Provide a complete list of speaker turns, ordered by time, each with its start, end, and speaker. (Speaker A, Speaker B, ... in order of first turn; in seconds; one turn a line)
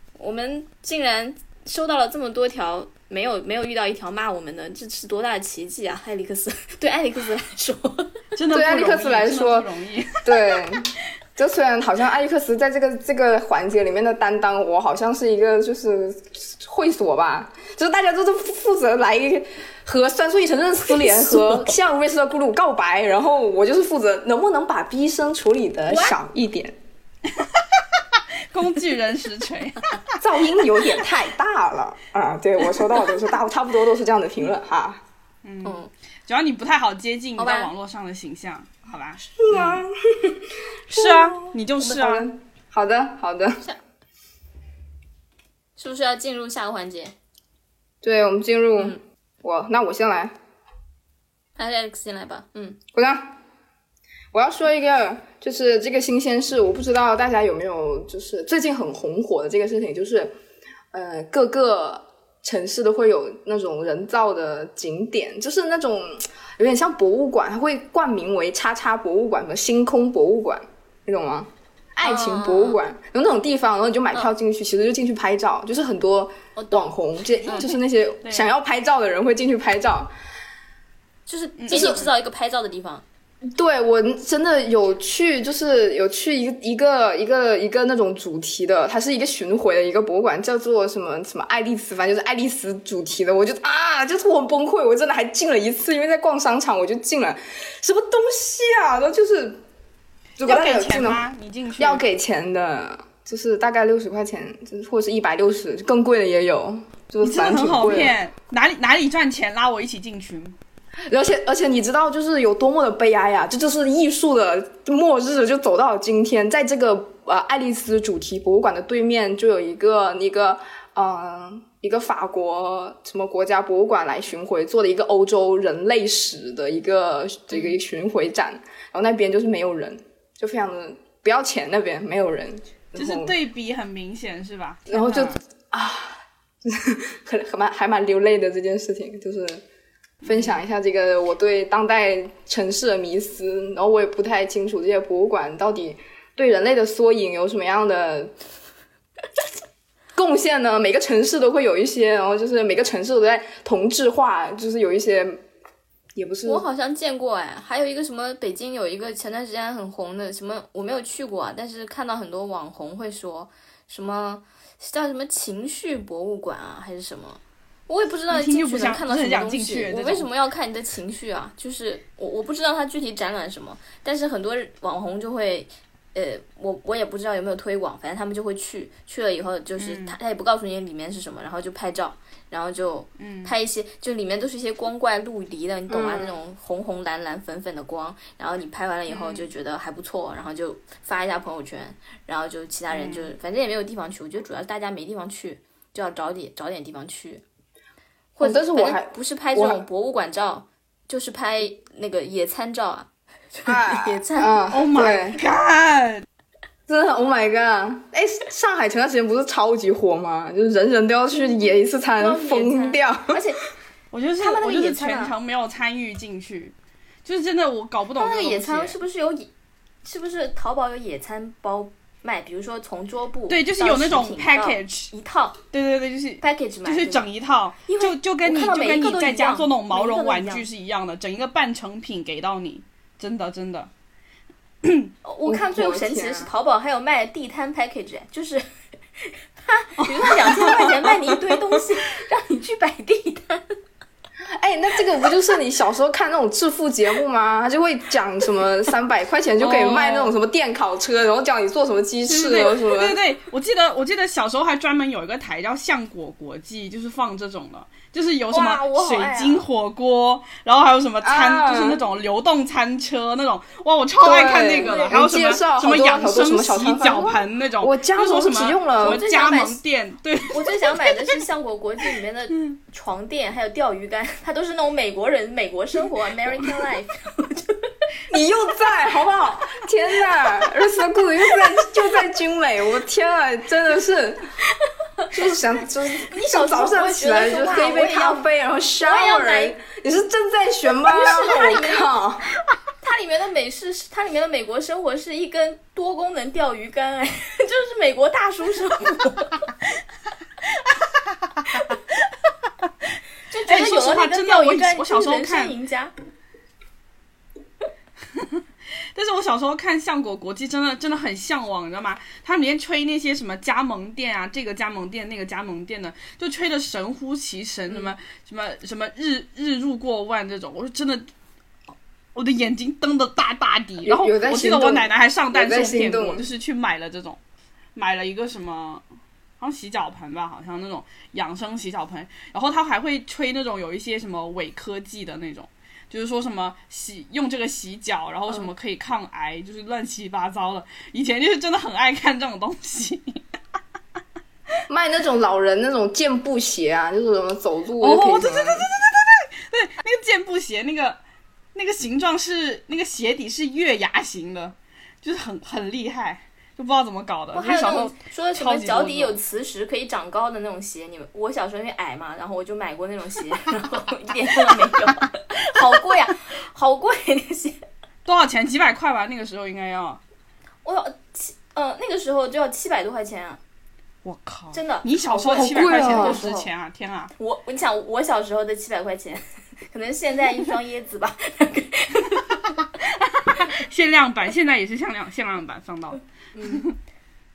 Speaker A: 0.2-8.1
Speaker B: 8.3-10.4
Speaker C: 8.5-9.7
Speaker C: 10.2-26.8
Speaker A: 20.9-21.7
Speaker B: 28.5-30.0
Speaker C: 30.2-35.0
Speaker B: 35.4-39.8
Speaker A: 35.6-35.9
Speaker A: 37.4-37.7
Speaker C: 39.4-43.6
Speaker B: 40.9-42.3
Speaker A: 45.8-47.1
Speaker C: 48.0-50.3
Speaker A: 51.6-52.8
Speaker C: 52.9-53.4
Speaker C: 54.3-60.3
Speaker C: 60.9-80.1
Speaker A: 72.0-72.8
Speaker A: 76.5-76.9
Speaker A: 77.4-77.7
Speaker B: 78.2-78.5
Speaker A: 81.3-83.0
Speaker B: 81.6-82.0
Speaker C: 81.7-82.0
Speaker C: 83.5-99.6
Speaker C: 100.4-101.2
Speaker B: 100.4-102.0
Speaker C: 101.8-108.1
Speaker B: 107.2-110.5
Speaker C: 111.1-133.3
Speaker B: 132.9-135.4
Speaker C: 134.9-139.6
Speaker C: 140.2-148.3
Speaker C: 150.1-155.4
Speaker C: 156.1-156.6
Speaker A: 156.4-197.4
Speaker B: 168.3-170.2
Speaker B: 179.8-180.2
Speaker B: 183.2-183.5
Speaker C: 185.9-186.3
Speaker B: 189.1-189.4
Speaker B: 192.9-193.3
Speaker A: 198.3-204.5
Speaker C: 198.4-199.8
Speaker C: 203.7-205.4
Speaker B: 204.7-206.2
Speaker C: 206.9-213.4
Speaker A: 212.2-213.6
Speaker B: 214.1-216.7
Speaker A: 214.4-215.3
Speaker B: 217.2-219.0
Speaker A: 218.2-219.5
Speaker A: 220.0-225.6
Speaker B: 223.5-225.1
Speaker B: 225.7-233.9
Speaker A: 226.4-227.2
Speaker A: 227.8-230.6
Speaker B: 234.8-235.1
Speaker A: 235.2-238.7
Speaker C: 235.4-236.5
Speaker A: 239.2-243.7
Speaker B: 240.0-240.8
Speaker C: 244.6-253.2
Speaker B: 249.6-250.3
Speaker B: 252.3-271.2
Speaker A: 258.5-259.6
Speaker C: 261.2-262.0
Speaker C: 264.2-269.2
Speaker A: 264.8-265.2
Speaker A: 269.0-269.8
Speaker A: 270.5-277.9
Speaker C: 278.3-284.4
Speaker C: 285.3-292.4
Speaker A: 286.1-288.4
Speaker A: 289.0-289.7
Speaker A: 291.1-292.1
Speaker A: 293.0-299.7
Speaker B: 301.7-302.0
Speaker A: 303.5-306.1
Speaker B: 303.7-305.7
Speaker B: 309.1-321.3
Speaker B: 322.3-327.4
Speaker C: 324.0-326.4
Speaker B: 327.9-329.0
Speaker B: 329.6-343.4
Speaker C: 344.9-348.9
Speaker B: 348.0-351.2
Speaker B: 351.7-359.4
Speaker A: 357.5-367.8
Speaker B: 368.2-370.2
Speaker A: 370.8-373.6
Speaker B: 374.2-377.3
Speaker A: 374.7-376.7
Speaker C: 375.3-376.4
Speaker A: 377.4-382.4
Speaker B: 383.0-386.9